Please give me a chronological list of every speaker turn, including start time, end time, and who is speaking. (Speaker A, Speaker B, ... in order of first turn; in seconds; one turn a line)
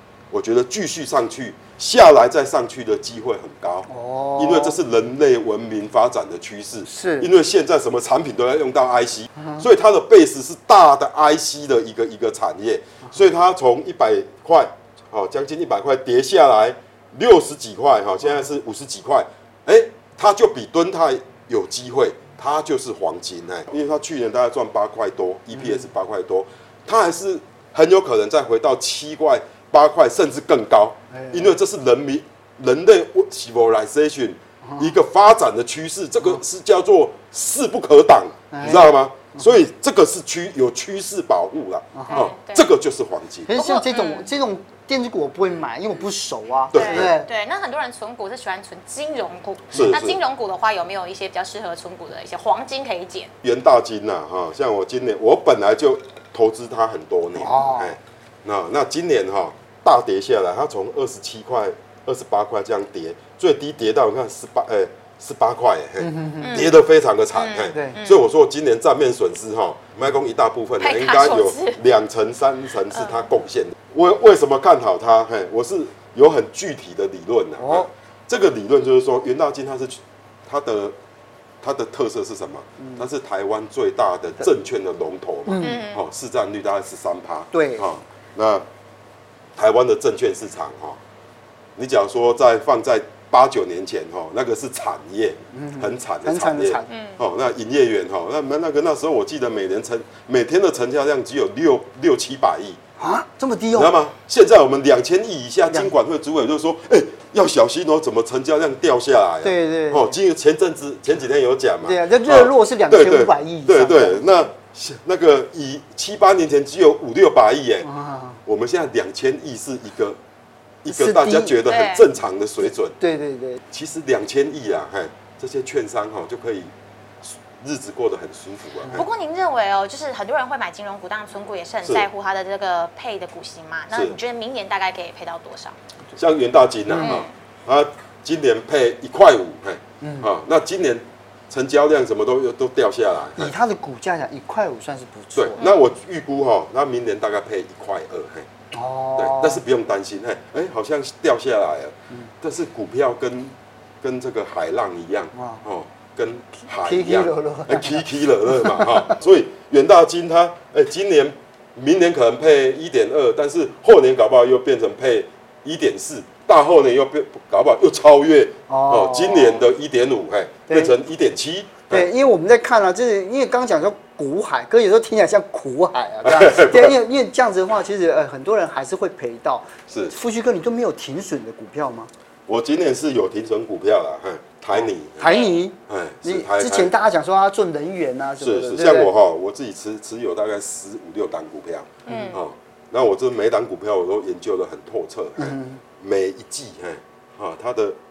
Speaker A: 0.3-43.5
Speaker B: 3.9-4.8
Speaker B: 6.8-7.3
Speaker B: 9.4-9.6
Speaker B: 31.1-31.5
Speaker B: 38.5-39.5
Speaker B: 41.9-42.2
Speaker C: 42.1-42.7
Speaker B: 43.5-47.3
Speaker C: 43.5-44.3
Speaker A: 46.7-47.1
Speaker C: 46.7-53.3
Speaker A: 49.7-50.2
Speaker A: 53.4-81.0
Speaker B: 57.4-58.0
Speaker B: 66.0-66.6
Speaker C: 66.4-66.7
Speaker C: 67.3-68.2
Speaker B: 67.7-68.0
Speaker C: 70.8-71.8
Speaker C: 72.9-73.3
Speaker B: 77.6-77.9
Speaker A: 81.6-88.6
Speaker B: 82.8-83.0
Speaker B: 85.5-85.8
Speaker C: 85.6-86.0
Speaker B: 87.5-87.8
Speaker A: 89.5-91.0
Speaker A: 91.8-102.8
Speaker B: 95.5-96.9
Speaker C: 96.9-97.2
Speaker B: 103.0-103.9
Speaker A: 103.7-117.9
Speaker B: 109.4-110.1
Speaker B: 111.8-114.3
Speaker B: 117.8-118.4
Speaker A: 118.4-120.2
Speaker A: 120.8-123.0
Speaker B: 120.9-121.6
Speaker C: 121.7-122.0
Speaker B: 123.0-123.6
Speaker A: 123.7-126.7
Speaker A: 127.2-129.1
Speaker C: 128.9-135.7
Speaker A: 131.8-132.1
Speaker A: 133.9-134.2
Speaker A: 136.2-143.5
Speaker B: 136.9-137.2
Speaker C: 137.0-137.3
Speaker B: 140.0-140.3
Speaker B: 143.4-145.6
Speaker A: 145.3-148.5
Speaker C: 145.6-145.8
Speaker B: 148.7-149.6
Speaker A: 149.2-172.1
Speaker B: 155.3-155.6
Speaker B: 156.8-159.1
Speaker B: 168.7-169.6
Speaker B: 170.7-170.9
Speaker B: 171.9-182.1
Speaker A: 176.2-177.0
Speaker A: 179.9-180.1
Speaker A: 182.5-186.9
Speaker B: 184.7-189.1
Speaker C: 185.2-185.6
Speaker A: 188.4-198.0
Speaker C: 192.1-192.4
Speaker B: 192.1-192.3
Speaker B: 195.4-195.8